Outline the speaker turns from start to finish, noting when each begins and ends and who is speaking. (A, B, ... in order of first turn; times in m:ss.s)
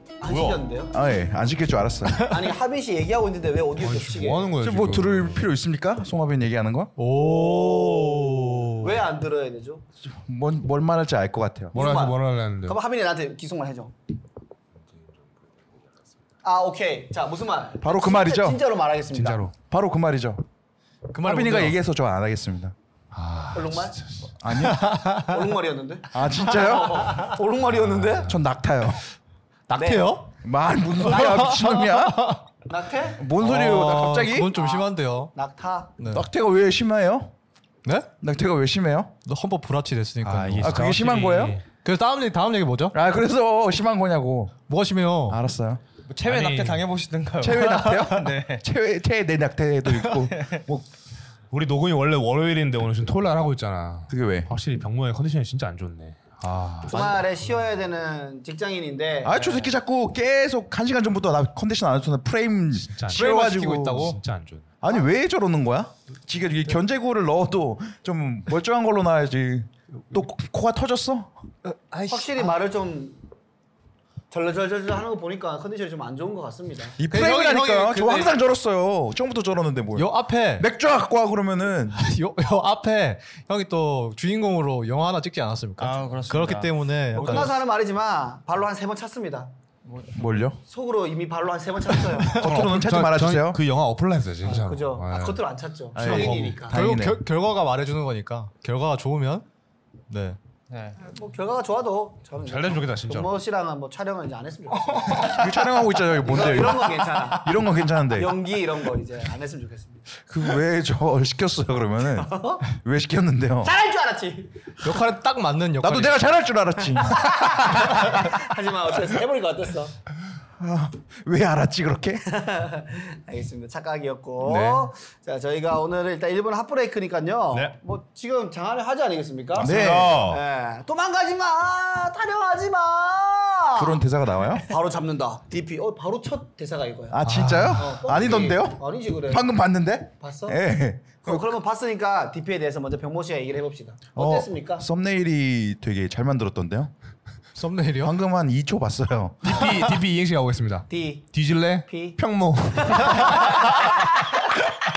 0:00.2-0:00.9 A
0:00.2-0:00.6 B
0:00.9-0:02.2 C
0:02.2-0:04.5 A
0:03.8-0:05.5 B
0:04.6-0:06.9 C
0:07.0-0:09.0 D
0:07.1-0:09.8 A
0:10.0-0:11.8 C
0:11.7-0:12.8 B
0:11.7-0:13.9 A
0:16.4-0:19.5 A
0:17.8-0:18.6 C
0:19.1-0:19.5 B
0:19.6-0:20.4 C
0:21.1-0:21.8 D
0:21.2-0:22.7 C
0:23.1-0:24.3 B
0:23.5-0:24.0 A
0:24.4-0:25.0 C
0:24.5-0:25.4 D
0:25.1-0:28.4 A
0:26.1-0:27.3 C
0:28.2-0:29.0 C
0:29.7-0:30.3 D
0:29.7-0:30.1 A
0:30.4-0:32.3 C
0:31.0-0:32.4 D
0:32.7-0:33.3 A
0:33.2-0:34.5 C
0:33.4-0:35.3 D
0:34.5-0:36.0 A
0:36.0-0:36.2 D
0:36.1-0:37.3 C
0:37.8-0:38.1 D
0:38.2-0:39.1 C
0:39.2-0:40.9 D
0:40.2-0:41.6 B
0:40.6-0:41.6 C
0:41.8-0:43.0 D
0:42.9-0:44.6 C
0:44.7-0:45.4 D
0:45.3-0:45.8 C
0:46.1-0:48.6 E
0:46.2-0:46.8 B
0:47.4-0:50.8 C
0:50.3-0:50.6 E
0:51.5-0:57.2 B
0:54.1-0:54.5 C
0:56.9-0:59.4 A
0:59.2-1:04.1 C
0:59.3-0:59.7 E
1:02.8-1:03.4 B
1:03.1-1:04.2 D
1:04.0-1:04.7 B
1:04.8-1:11.3 C
1:11.6-1:12.6 D
1:12.1-1:13.2 A
1:14.3-1:17.0 A
1:17.0-1:18.4 D
1:17.0-1:22.0 C
1:19.9-1:20.7 D
1:21.9-1:27.6 D
1:25.8-1:27.5 E
1:27.1-1:29.5 A
1:29.8-1:30.1 E
1:30.1-1:30.6 C
1:30.6-1:32.5 A
1:32.1-1:32.6 D
1:32.3-1:33.6 C
1:32.4-1:35.4 B
1:34.4-1:36.8 A
1:35.9-1:37.2 C
1:36.0-1:36.6 B
1:36.7-1:39.4 D
1:40.1-1:40.4 D
1:40.7-1:41.0 E
1:41.0-1:45.5 A
1:42.4-1:43.3 B
1:45.1-1:48.4 C
1:46.2-1:50.1 A
1:50.3-1:53.7 C
1:52.1-1:52.6 A
1:53.6-1:55.0 A
1:54.8-1:56.2 D
1:55.8-1:58.3 C
1:56.9-1:59.9 A
2:00.6-2:02.2 C
2:02.3-2:14.0 A
2:04.4-2:04.9 C
2:09.5-2:10.4 B
2:09.6-2:10.3 C
2:13.7-2:14.6 C
2:14.6-2:19.5 A
2:17.1-2:21.6 C
2:17.2-2:18.0 B
2:20.2-2:20.6 A
2:21.2-2:24.8 A
2:24.2-2:26.9 C
2:27.5-2:28.2 D
2:28.0-2:29.7 C
2:29.4-2:33.7 B
2:30.9-2:31.3 A
2:31.8-2:32.2 A
2:32.8-2:34.0 A